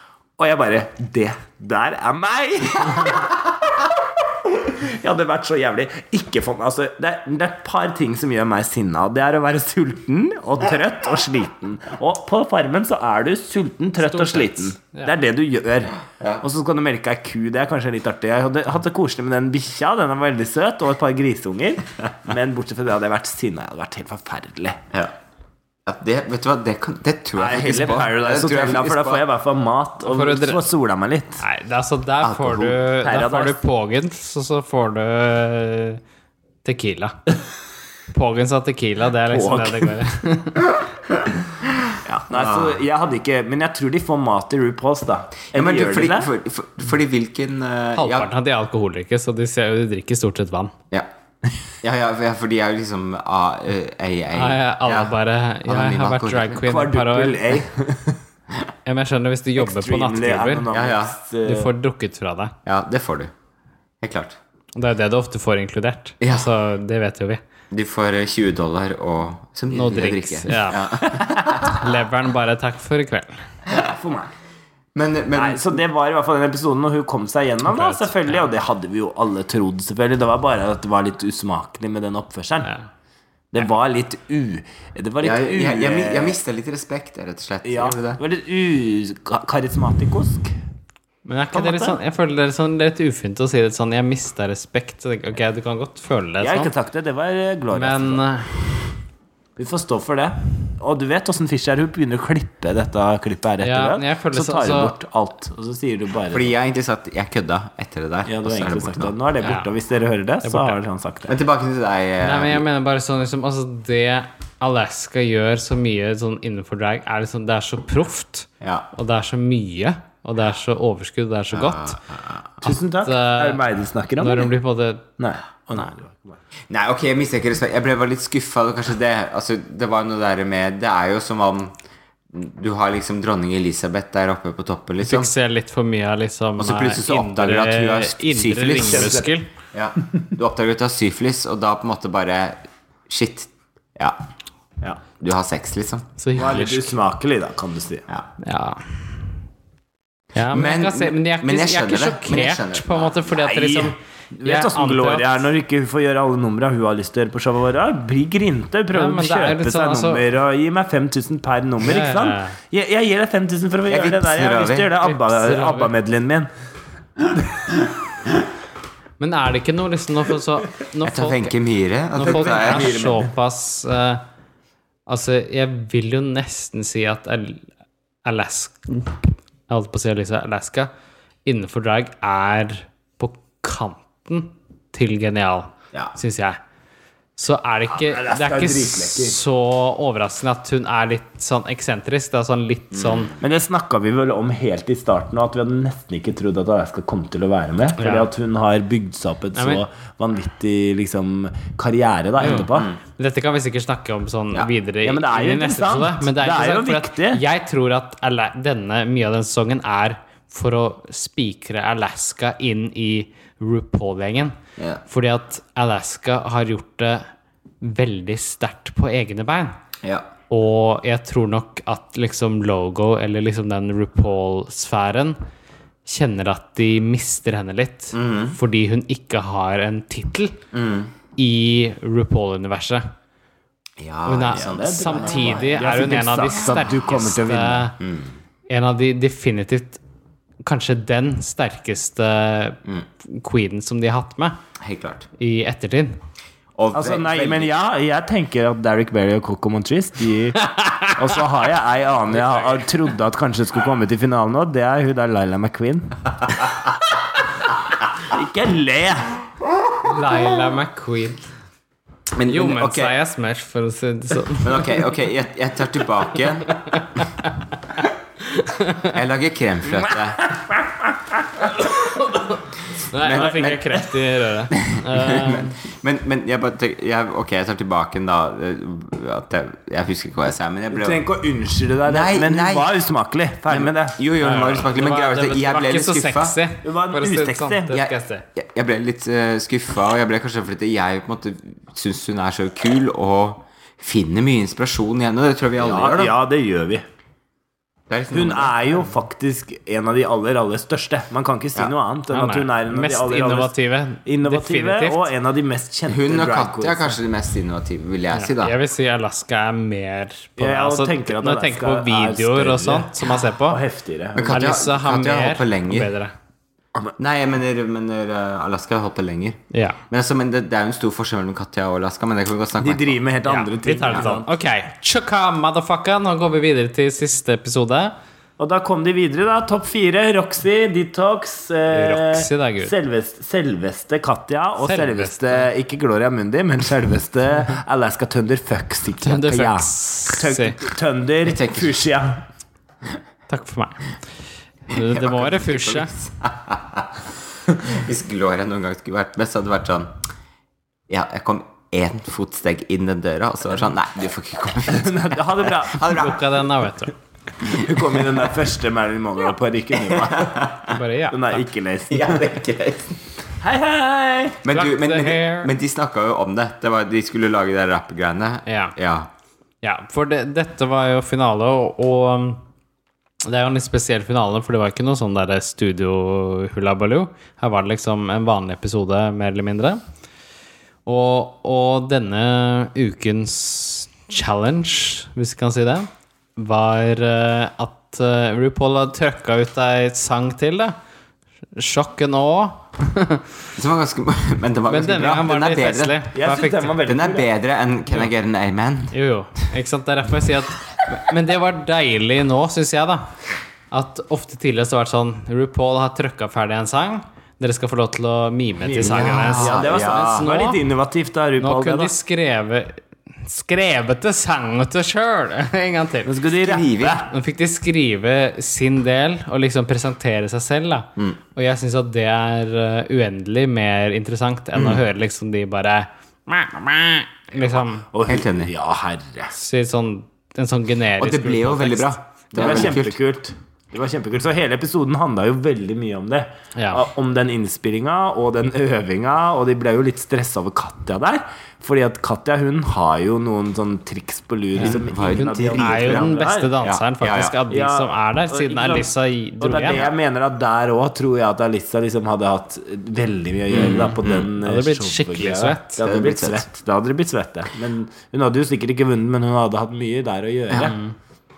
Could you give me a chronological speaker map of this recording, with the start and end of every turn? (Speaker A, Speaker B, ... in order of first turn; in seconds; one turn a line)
Speaker A: 0.4-3.4
Speaker A: 4.6-24.8
Speaker B: 14.0-15.1
Speaker C: 25.8-29.2
Speaker A: 27.4-31.4
Speaker B: 30.0-30.6
Speaker B: 31.4-36.0
Speaker C: 32.2-32.8
Speaker A: 33.0-33.6
Speaker B: 36.6-37.1
Speaker B: 38.1-40.7
Speaker A: 39.3-40.0
Speaker A: 42.0-46.3
Speaker C: 42.3-42.8
Speaker C: 45.5-48.3
Speaker B: 48.0-50.7
Speaker C: 51.8-55.1
Speaker B: 54.3-57.6
Speaker C: 55.6-56.6
Speaker A: 56.6-58.2
Speaker B: 58.9-60.6
Speaker A: 59.6-61.7
Speaker C: 60.7-61.1
Speaker B: 61.4-62.5
Speaker C: 62.6-63.3
Speaker C: 64.0-64.4
Speaker B: 64.8-67.4
Speaker C: 66.2-66.5
Speaker C: 67.7-71.8
Speaker B: 69.7-73.5
Speaker A: 73.7-74.3
Speaker C: 74.9-75.8
Speaker A: 75.3-82.7
Speaker B: 77.6-78.4
Speaker A: 83.5-86.4
Speaker C: 85.2-88.2
Speaker A: 87.6-90.5
Speaker B: 91.2-96.7
Speaker A: 91.5-92.0
Speaker A: 96.4-98.2
Speaker B: 97.7-98.5
Speaker A: 99.6-106.5
Speaker B: 103.6-104.9
Speaker C: 106.3-109.1
Speaker A: 108.2-111.3
Speaker B: 109.4-109.7
Speaker B: 110.4-110.8
Speaker C: 111.2-112.6
Speaker B: 112.2-122.0
Speaker C: 118.6-118.9
Speaker C: 121.5-122.5
Speaker B: 122.6-123.6
Speaker A: 122.6-124.5
Speaker B: 124.2-125.0
Speaker A: 125.2-126.4
Speaker C: 126.7-131.7
Speaker C: 132.3-135.3
Speaker B: 135.0-139.5
Speaker C: 136.6-139.2
Speaker A: 138.7-139.3
Speaker C: 139.7-144.2
Speaker C: 145.2-146.1
Speaker B: 146.2-146.9
Speaker A: 146.3-148.0
Speaker B: 148.4-149.0
Speaker B: 150.3-155.4
Speaker C: 150.5-153.3
Speaker A: 153.4-166.5
Speaker B: 158.9-160.2
Speaker B: 161.8-162.6
Speaker C: 163.9-165.0
Speaker B: 165.0-165.9
Speaker A: 167.3-167.6
Speaker B: 169.2-171.5
Speaker C: 171.0-173.1
Speaker B: 172.1-174.2
Speaker A: 172.2-173.3
Speaker B: 175.1-177.7
Speaker B: 178.2-180.9
Speaker B: 181.4-186.6
Speaker B: 187.3-193.3
Speaker A: 187.9-189.4
Speaker C: 192.9-193.4
Speaker A: 193.4-202.9
Speaker B: 198.0-198.3
Speaker B: 199.6-199.8
Speaker B: 202.4-217.3
Speaker C: 202.7-202.9
Speaker A: 205.0-207.4
Speaker C: 214.8-215.0
Speaker B: 217.8-219.7
Speaker C: 220.0-220.3
Speaker B: 220.5-225.4
Speaker B: 226.0-230.6
Speaker C: 228.1-228.6
Speaker C: 230.7-231.1
Speaker B: 231.3-233.1
Speaker C: 234.0-235.6
Speaker B: 234.3-238.0
Speaker A: 234.6-237.9
Speaker C: 238.0-238.3
Speaker B: 238.7-240.0
Speaker B: 240.6-244.6
Speaker C: 244.8-245.3
Speaker B: 245.4-246.2
Speaker C: 246.7-247.7
Speaker A: 246.9-256.6
Speaker B: 250.6-251.2
Speaker B: 252.3-252.8
Speaker A: 258.2-259.4
Speaker B: 260.0-261.5
Speaker C: 262.3-263.1
Speaker B: 262.4-265.0
Speaker C: 264.6-267.3
Speaker B: 266.9-267.5
Speaker B: 268.4-269.1
Speaker C: 269.0-270.5
Speaker A: 270.4-271.1
Speaker B: 271.9-275.7
Speaker C: 273.1-274.1
Speaker C: 274.7-281.2
Speaker A: 280.9-284.2
Speaker C: 282.0-282.9
Speaker C: 283.7-286.6
Speaker B: 284.4-288.4
Speaker A: 286.8-288.1
Speaker C: 287.9-296.4
Speaker A: 295.8-297.0
Speaker C: 298.1-298.9
Speaker A: 298.3-303.7
Speaker B: 302.3-305.3
Speaker A: 304.2-307.1
Speaker C: 306.1-308.8
Speaker B: 308.3-313.8
Speaker A: 310.6-314.8
Speaker C: 314.3-316.1
Speaker B: 314.4-316.3
Speaker C: 317.2-323.2
Speaker B: 319.7-320.0
Speaker A: 322.8-324.5
Speaker B: 323.4-328.1
Speaker A: 328.6-342.4
Speaker B: 331.9-332.9
Speaker B: 334.8-335.7
Speaker B: 339.2-340.8
Speaker C: 341.4-342.0
Speaker B: 343.5-344.1
Speaker B: 344.9-346.1
Speaker C: 344.9-350.1
Speaker C: 351.1-356.4
Speaker A: 354.9-356.4
Speaker B: 356.0-357.1
Speaker A: 357.6-360.7
Speaker C: 359.9-360.9
Speaker B: 360.9-361.6
Speaker A: 361.3-362.5
Speaker C: 362.1-363.2
Speaker A: 363.6-364.6
Speaker C: 364.6-369.3
Speaker B: 364.7-365.7
Speaker B: 368.6-368.9
Speaker B: 369.8-372.6
Speaker B: 373.4-380.0
Speaker B: 381.1-390.9
Speaker B: 391.7-393.5
Speaker C: 393.8-396.2
Speaker B: 394.9-396.9
Speaker A: 396.3-397.5
Speaker C: 397.0-399.1
Speaker B: 399.1-403.3
Speaker B: 403.9-410.8
Speaker A: 408.8-412.1
Speaker C: 409.0-410.5
Speaker B: 411.6-416.3
Speaker A: 416.2-417.2
Speaker C: 416.6-417.3
Speaker B: 417.0-428.1
Speaker C: 424.7-425.0
Speaker A: 428.1-429.5
Speaker C: 428.2-428.7
Speaker B: 429.5-432.6
Speaker C: 431.2-433.2
Speaker A: 432.5-446.7
Speaker B: 436.8-437.1
Speaker B: 444.8-450.1
Speaker C: 444.8-447.6
Speaker A: 447.7-449.1
Speaker A: 449.6-460.9
Speaker C: 453.7-454.5
Speaker B: 454.6-456.0
Speaker C: 456.0-456.6
Speaker B: 460.8-461.1